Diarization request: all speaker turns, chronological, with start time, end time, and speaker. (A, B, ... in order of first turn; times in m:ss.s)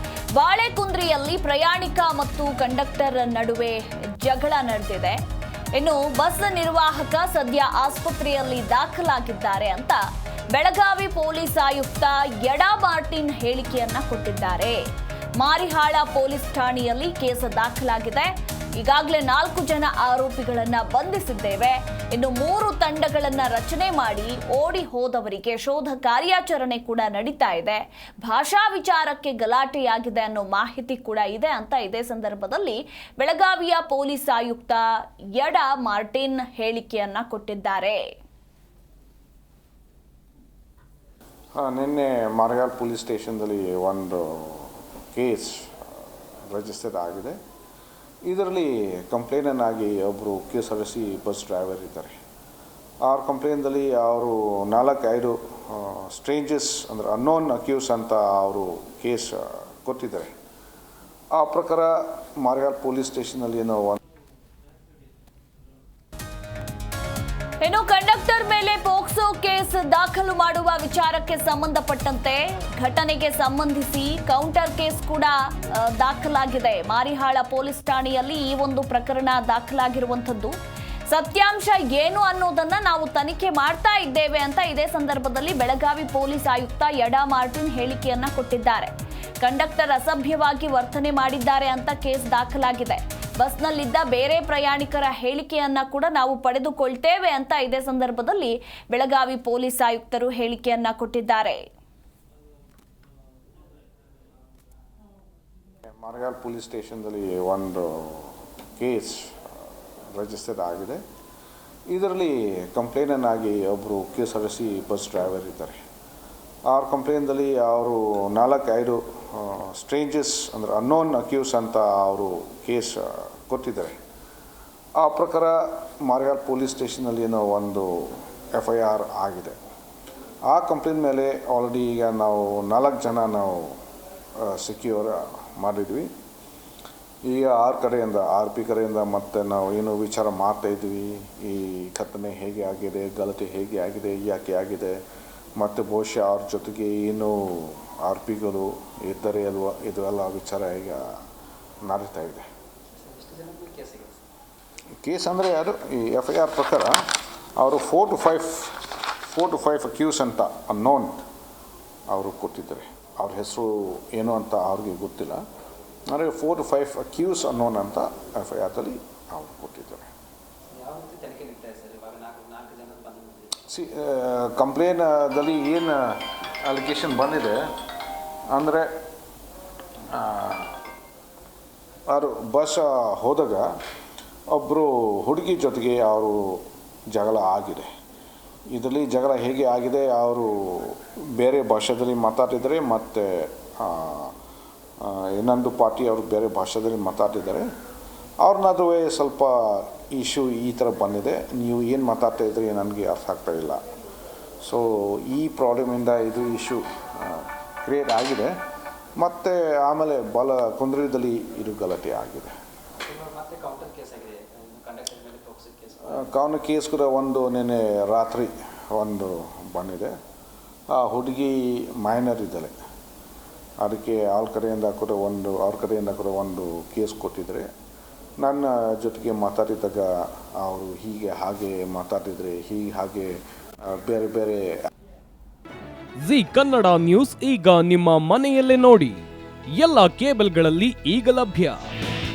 0:00.4-0:05.2 A
0:05.8-0:10.0 A
0:10.5-0:14.8 A
0:15.4-0:38.0 A
0:41.6-0:45.9 B
0:46.5-0:47.4 B
0:48.3-0:52.2 B
0:53.0-1:00.3 B
1:01.4-1:04.0 B
1:07.6-1:20.5 A
1:21.1-1:41.6 A
1:45.9-1:49.5 B
1:50.1-1:51.0 B
1:51.9-1:55.8 B
1:56.7-2:04.0 B
2:05.0-2:09.6 B
2:10.5-2:13.8 B
2:14.4-2:16.1 B
2:17.2-2:25.0 B
2:25.6-2:31.2 B
2:31.8-2:32.5 B
2:33.0-2:34.2 C
2:35.0-2:41.2 B
2:42.1-2:45.4 B
2:46.1-2:50.1 B
2:50.7-2:53.5 C
2:53.7-2:57.6 B
2:58.5-2:59.0 B
3:00.1-3:00.8 B
3:02.1-3:03.7 B
3:04.5-3:07.9 B
3:08.7-3:14.3 B
3:15.0-3:17.7 B
3:18.4-3:23.8 B
3:24.6-3:28.6 B
3:29.2-3:32.5 B
3:33.0-3:36.2 C
3:36.1-3:40.1 B
3:40.9-3:42.7 B
3:43.8-3:47.7 B
3:48.4-3:54.8 B
3:56.2-3:59.2 D
3:59.8-4:01.8 D